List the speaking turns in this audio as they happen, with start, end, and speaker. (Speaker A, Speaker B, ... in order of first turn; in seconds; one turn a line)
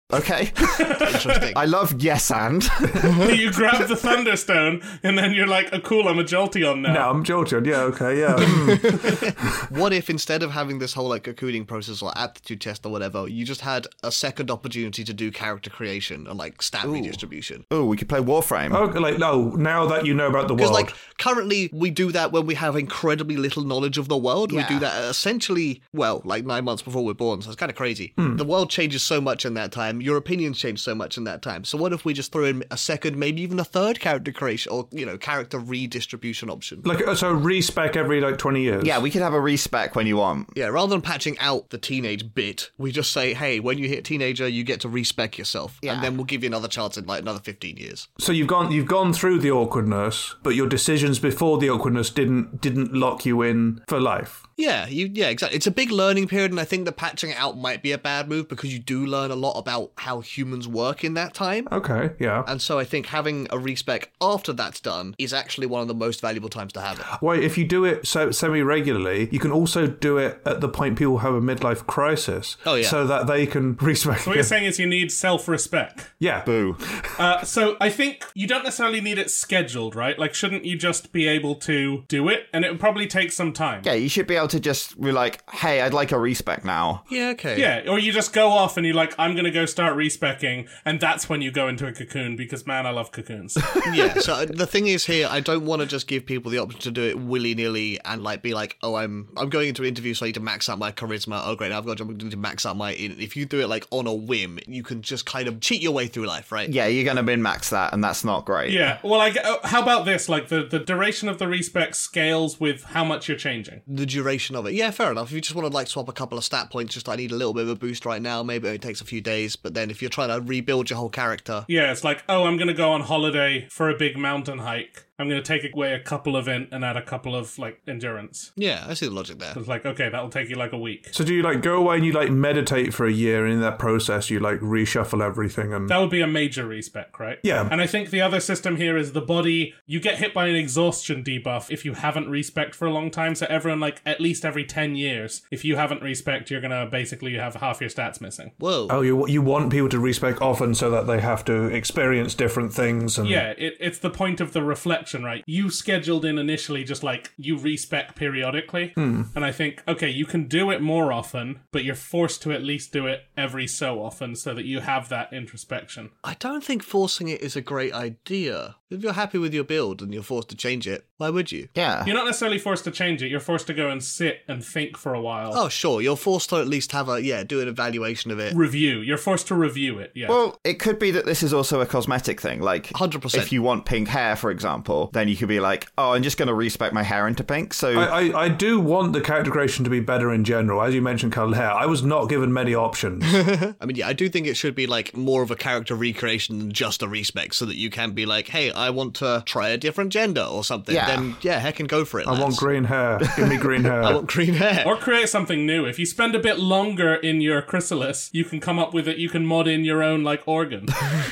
Speaker A: 0.1-3.4
Speaker B: 0.6-1.4
Speaker C: 1.0-1.6
Speaker B: 3.2-7.1
Speaker D: 6.8-9.7
Speaker C: 8.4-17.6
Speaker A: 16.8-18.8
Speaker D: 18.7-20.9
Speaker C: 20.6-36.8
Speaker A: 24.5-24.9
Speaker D: 28.2-28.4
Speaker D: 36.8-39.0
Speaker A: 38.8-40.5
Speaker C: 40.5-48.0
Speaker A: 45.8-46.1
Speaker D: 48.2-54.4
Speaker C: 54.6-61.7
Speaker D: 61.7-62.5
Speaker C: 62.4-67.1
Speaker D: 67.1-74.5
Speaker C: 72.6-73.0
Speaker B: 74.2-76.1
Speaker D: 76.2-77.0
Speaker A: 76.4-76.8
Speaker B: 77.2-83.9
Speaker A: 83.8-87.0
Speaker C: 87.1-87.7
Speaker B: 87.5-93.7
Speaker C: 93.8-106.7
Speaker A: 106.7-108.8
Speaker B: 108.7-113.8
Speaker C: 113.9-121.7
Speaker B: 121.7-128.5
Speaker C: 128.6-129.6
Speaker B: 129.5-131.1
Speaker D: 131.1-136.0
Speaker B: 135.9-148.5
Speaker D: 137.4-137.7
Speaker C: 148.6-149.0
Speaker D: 148.9-153.4
Speaker B: 153.2-166.1
Speaker D: 159.0-159.3
Speaker C: 166.2-171.7
Speaker A: 171.7-172.1
Speaker B: 172.0-175.6
Speaker C: 175.5-178.6
Speaker B: 178.5-180.4
Speaker A: 180.3-188.1
Speaker C: 182.9-183.5
Speaker D: 187.9-193.4
Speaker C: 193.2-202.6
Speaker A: 200.9-201.3
Speaker D: 202.2-204.2
Speaker A: 203.2-203.6
Speaker C: 204.0-204.9
Speaker B: 204.8-211.0